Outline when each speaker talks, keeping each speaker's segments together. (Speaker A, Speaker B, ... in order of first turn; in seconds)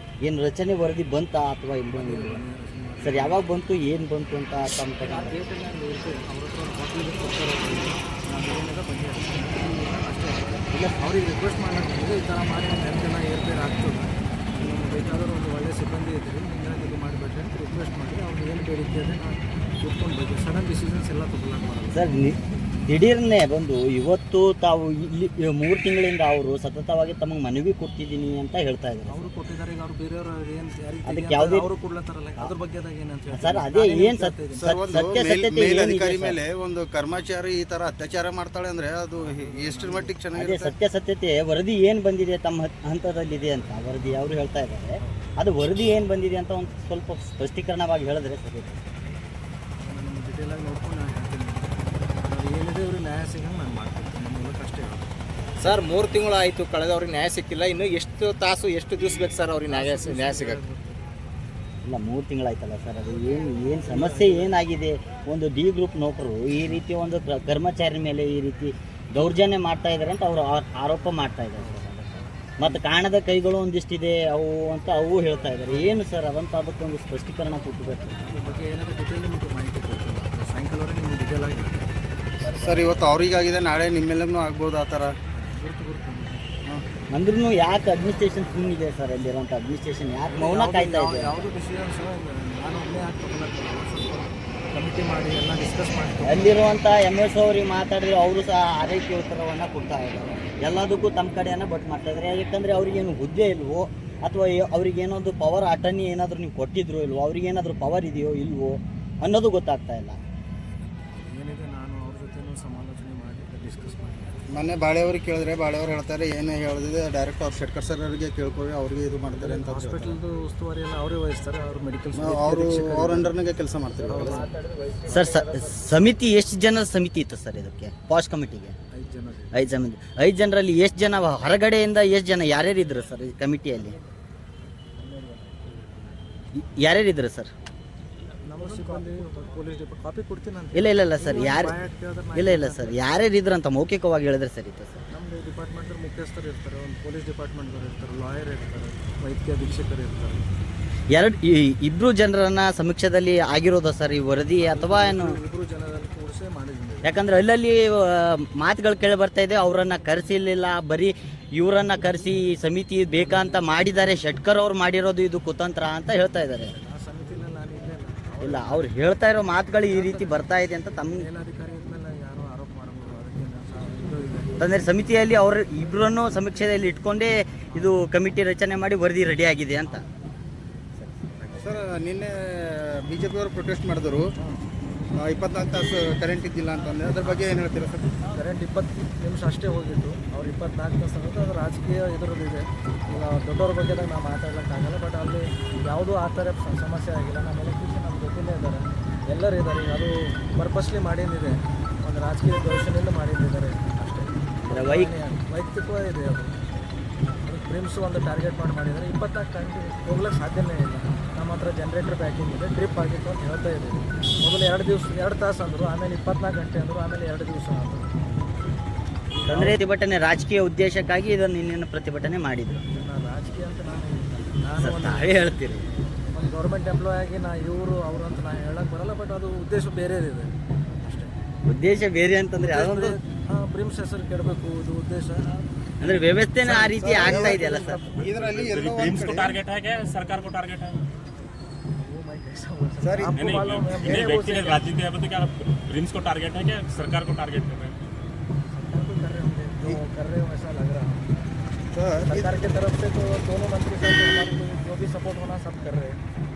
Speaker A: 0.2-2.4, 3.0-5.4, 21.9-29.3, 31.1-31.7, 33.3-34.4, 34.9-36.4, 40.4-48.8, 61.9-72.0, 72.6-78.2, 87.1-91.4, 96.2-110.2, 125.1-128.8, 129.5-133.9, 136.6-137.5, 140.7-141.8, 142.3-145.0, 151.1-155.4, 157.0-166.7, 168.4-171.2, 174.6-180.0, 181.0-181.6, 204.7-205.1, 219.5-222.8, 224.8-225.8, 231.7-233.2, 236.0-238.0
Speaker B: 1.9-3.5, 5.0-22.1, 29.1-34.8, 39.2-40.2, 49.8-55.1, 59.7-61.1, 63.9-64.5, 71.6-72.8, 78.2-81.9, 82.5-82.9, 85.3-86.5, 90.3-96.5, 111.1-114.4, 119.3-123.3, 124.0-124.5, 128.9-129.7, 134.9-135.7, 138.4-143.0, 145.1-150.4, 154.6-157.1, 163.1-163.7, 166.5-168.9, 169.9-170.4, 171.1-174.7, 187.2-187.6, 188.3-206.6, 207.4-218.1, 219.3-219.8, 222.9-225.5, 226.3-231.4, 232.6-235.7, 236.6-238.7, 242.0-244.8, 248.7-251.2, 252.2-256.2
Speaker C: 34.6-40.7, 82.5-85.1, 114.5-120.2, 122.2-124.4, 181.6-184.2, 185.2-188.1, 237.0-239.6, 243.0-243.3, 251.9-252.6
Speaker D: 55.6-60.6
Speaker E: 238.3-241.0, 243.3-247.9